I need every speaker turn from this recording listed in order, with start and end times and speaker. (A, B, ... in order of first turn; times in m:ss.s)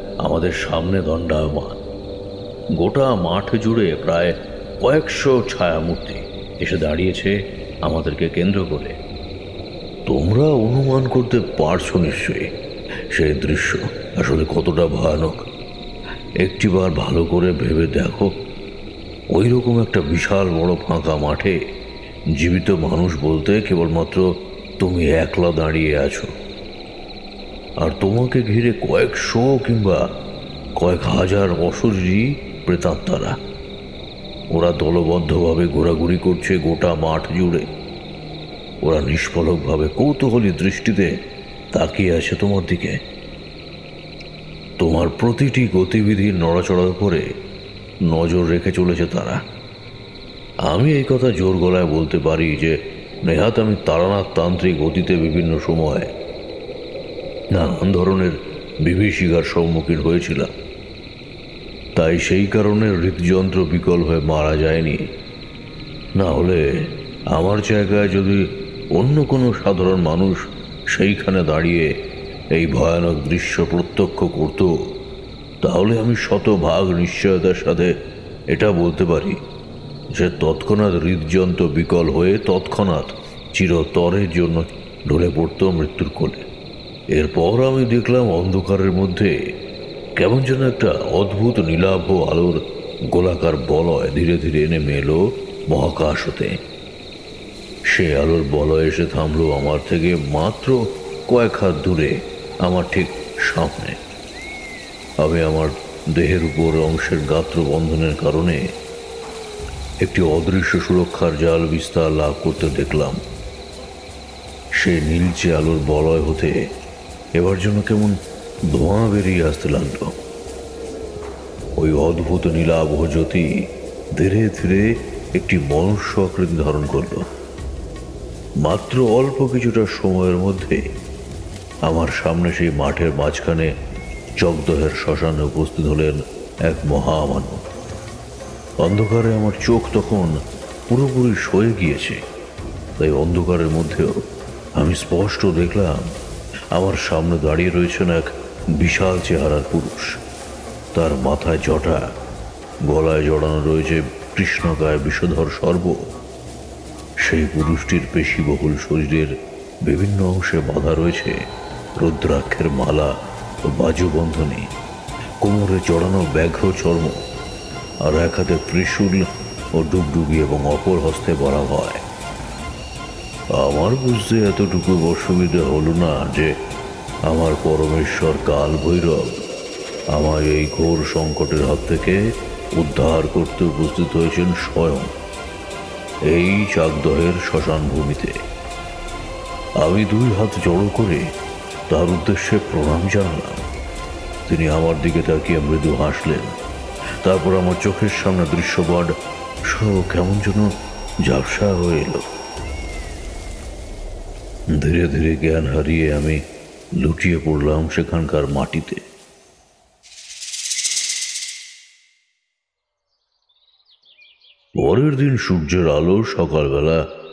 0:00.2-0:01.8 A
0:02.8-0:07.3 A
0:07.8-0:08.9 A
0:10.1-0:12.5 A
0:13.1-0:15.5 A
0:16.4-0:18.3 A
0:19.3-0:21.6 A
0:22.4-0:24.3 A
0:24.8-0:26.3 A
0:27.8-0:30.0 A
0:30.8-0:33.3 A
0:34.5-0:37.7 A
0:38.8-0:41.1 A
0:41.7-0:43.0 A
0:44.8-0:47.2 A
0:48.1-0:49.4 A
0:50.7-0:56.1 A
0:57.5-1:00.5 A
1:02.0-1:05.0 A
1:06.2-1:06.6 A
1:07.3-1:08.4 A
1:08.9-1:11.9 A
1:12.6-1:14.7 A
1:15.6-1:17.9 A
1:18.5-1:19.4 A
1:20.2-1:26.4 A
1:27.2-1:29.3 A
1:30.2-1:32.6 A
1:33.1-1:36.5 A
1:37.9-1:44.0 A
1:45.2-1:48.6 A
1:50.0-1:53.2 A
1:54.8-1:56.5 A
1:57.4-1:58.1 A
1:58.7-2:00.1 A
2:01.8-2:03.4 A
2:04.2-2:04.8 A
2:05.4-2:07.3 A
2:08.6-2:10.8 A
2:11.9-2:13.7 A
2:14.4-2:17.6 A
2:18.8-2:20.3 A
2:20.9-2:22.2 A
2:23.0-2:24.1 A
2:24.8-2:26.1 A
2:26.7-2:30.1 A
2:30.9-2:32.0 A
2:32.8-2:36.0 A
2:37.2-2:39.3 A
2:39.9-2:41.3 A
2:42.0-2:43.1 A
2:43.7-2:44.6 A
2:45.4-2:47.2 A
2:48.0-2:49.2 A
2:49.8-2:52.0 A
2:53.6-2:56.5 A
2:57.3-2:59.4 A
3:00.1-3:02.2 A
3:02.8-3:05.1 A
3:06.3-3:08.3 A
3:09.8-3:11.2 A
3:11.9-3:13.6 A
3:14.5-3:16.6 A
3:17.2-3:19.1 A
3:19.7-3:20.7 A
3:21.2-3:22.2 A
3:24.7-3:26.4 A
3:27.0-3:29.0 A
3:34.8-3:37.0 A